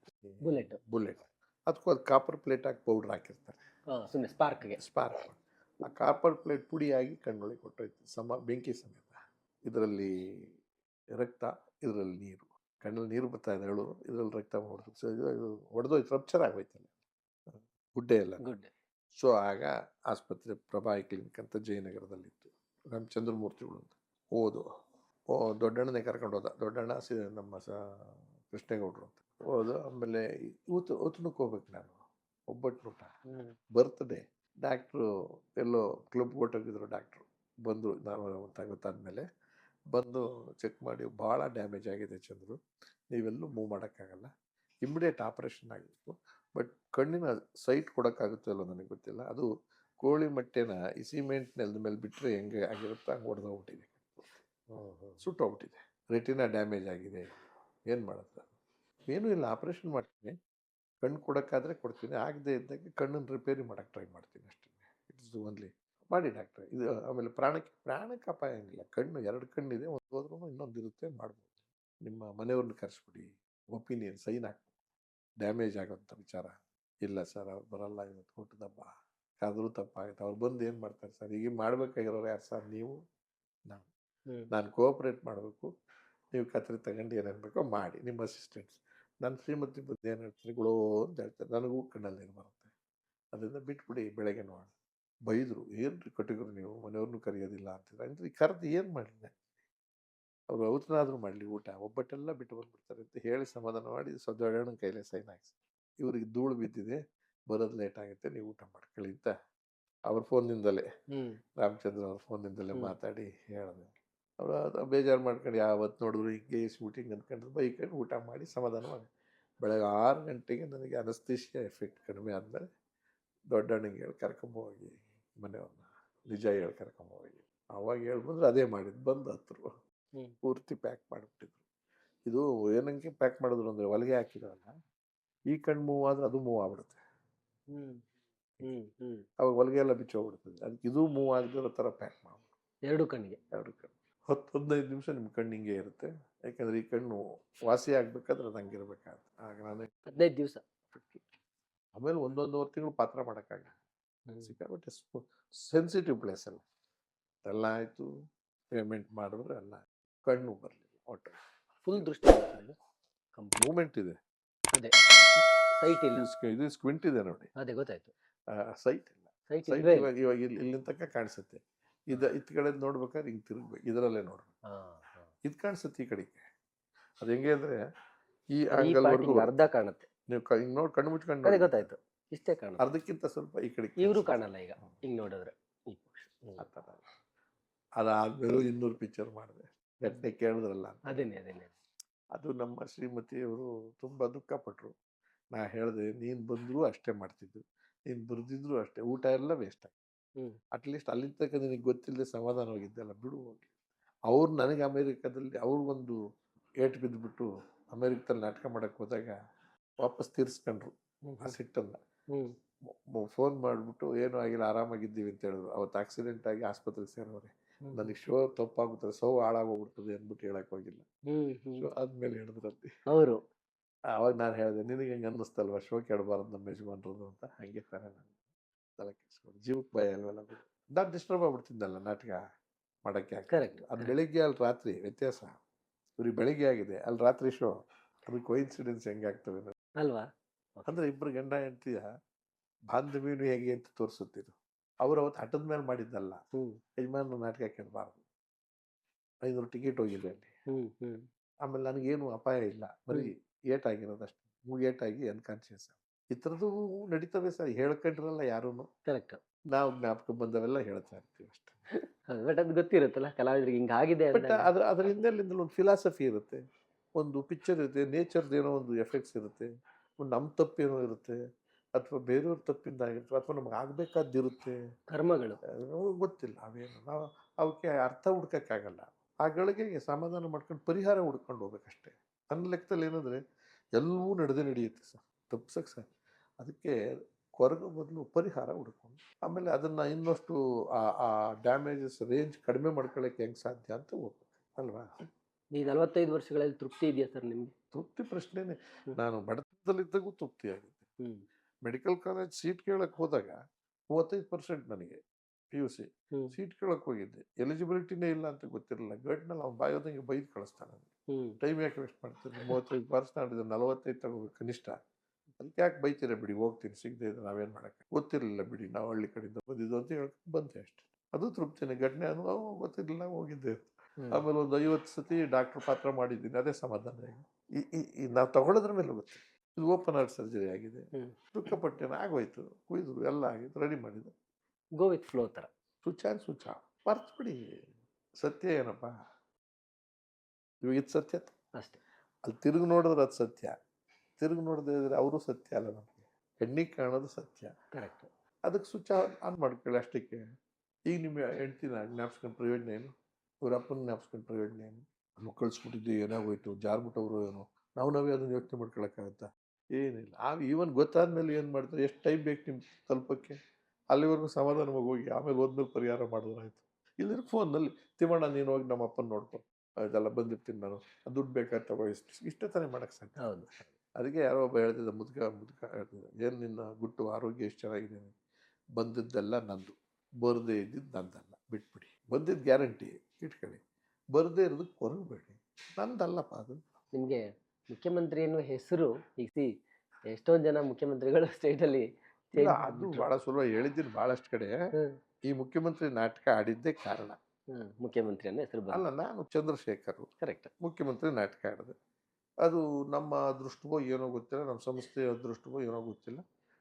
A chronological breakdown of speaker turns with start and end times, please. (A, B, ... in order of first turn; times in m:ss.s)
0:00.2-0:03.6 A
0:00.4-0:00.8 B
0:03.9-0:04.8 B
0:04.8-0:09.1 A
0:09.6-0:10.6 A
0:11.2-0:16.9 A
0:17.5-0:18.4 A
0:18.4-0:18.7 B
0:19.1-0:24.6 A
0:25.3-0:31.9 A
0:32.5-0:33.1 A
0:33.3-0:33.6 B
0:33.7-0:35.0 A
0:35.6-0:39.2 A
0:39.9-0:42.6 A
0:43.1-0:44.3 A
0:44.8-0:49.5 A
0:50.0-0:54.3 A
0:54.7-0:55.2 B
0:55.2-0:57.3 A
0:57.9-0:58.5 A
0:59.1-1:00.4 A
1:01.0-1:11.5 A
1:12.0-1:14.7 A
1:15.4-1:23.0 A
1:24.5-1:25.7 A
1:26.3-1:32.7 A
1:33.3-1:34.7 A
1:35.3-1:39.4 A
1:40.5-1:47.0 A
1:47.5-1:49.3 A
1:50.1-1:50.8 A
1:51.6-1:59.1 A
1:59.6-2:02.6 A
2:03.5-2:09.7 A
2:10.4-2:11.6 A
2:12.3-2:14.7 A
2:15.5-2:17.0 A
2:17.7-2:18.0 B
2:18.6-2:19.2 B
2:19.4-2:22.5 A
2:22.9-2:23.4 B
2:23.5-2:30.1 A
2:30.1-2:30.6 B
2:30.9-2:31.2 A
2:32.0-2:33.7 A
2:34.3-2:34.5 B
2:34.4-2:36.6 A
2:37.4-2:38.1 A
2:38.7-2:41.4 A
2:41.8-2:42.8 B
2:43.4-2:43.7 B
2:43.6-2:44.2 A
2:45.8-2:46.2 B
2:46.1-2:47.5 A
2:47.6-2:48.1 B
2:48.5-2:54.5 A
2:49.5-2:50.1 B
2:54.7-2:55.3 B
2:55.4-2:56.4 A
2:57.2-2:57.8 A
2:58.6-2:59.5 A
2:58.8-3:00.1 B
3:00.3-3:01.9 A
3:01.4-3:02.8 B
3:02.8-3:05.0 A
3:04.0-3:06.6 B
3:06.6-3:07.0 A
3:08.0-3:11.2 A
3:11.1-3:11.7 B
3:12.4-3:15.0 A
3:15.5-3:19.9 A
3:20.7-3:23.7 A
3:24.3-3:26.2 A
3:26.8-3:29.3 A
3:30.0-3:32.0 A
3:31.3-3:31.5 B
3:33.2-3:41.0 A
3:37.9-3:38.2 B
3:41.3-3:41.9 B
3:41.8-3:42.9 A
3:43.1-3:43.4 B
3:44.2-3:48.3 A
3:49.0-3:52.4 A
3:53.0-3:55.6 A
3:53.5-3:54.1 B
3:56.2-3:59.7 A
4:00.0-4:00.8 B
4:00.8-4:02.1 A
4:02.9-4:06.4 A
4:07.0-4:08.2 A
4:09.4-4:10.5 A
4:10.7-4:11.3 B
4:11.6-4:18.9 A
4:19.1-4:19.4 B
4:19.7-4:21.8 A
4:22.3-4:24.6 B
4:24.3-4:26.6 A
4:27.2-4:29.7 A
4:30.2-4:31.4 A
4:32.0-4:34.8 A
4:35.1-4:35.6 B
4:35.7-4:43.4 A
4:44.0-4:46.1 A
4:46.6-4:46.9 A
4:47.6-4:55.1 A
4:55.7-4:57.7 B
4:57.9-5:01.0 A
5:01.8-5:03.6 A
5:04.1-5:05.2 A
5:05.7-5:11.1 A
5:11.3-5:11.6 B
5:11.6-5:15.0 A
5:15.6-5:34.3 A
5:35.0-5:35.7 B
5:36.0-5:37.6 A
5:38.4-5:39.1 A
5:40.8-5:41.5 A
5:42.4-5:43.7 A
5:44.4-5:47.7 A
5:47.9-5:48.3 B
5:48.6-5:50.4 A
5:51.1-5:53.1 A
5:53.6-6:03.6 A
6:04.1-6:18.3 A
6:13.4-6:13.7 B
6:19.0-6:23.8 A
6:24.3-6:26.8 A
6:27.1-6:29.7 B
6:30.3-6:33.3 B
6:32.6-6:34.7 A
6:35.5-6:37.4 A
6:37.7-6:39.0 B
6:38.9-6:40.3 A
6:40.4-6:40.7 B
6:40.8-6:41.9 A
6:42.6-6:46.4 A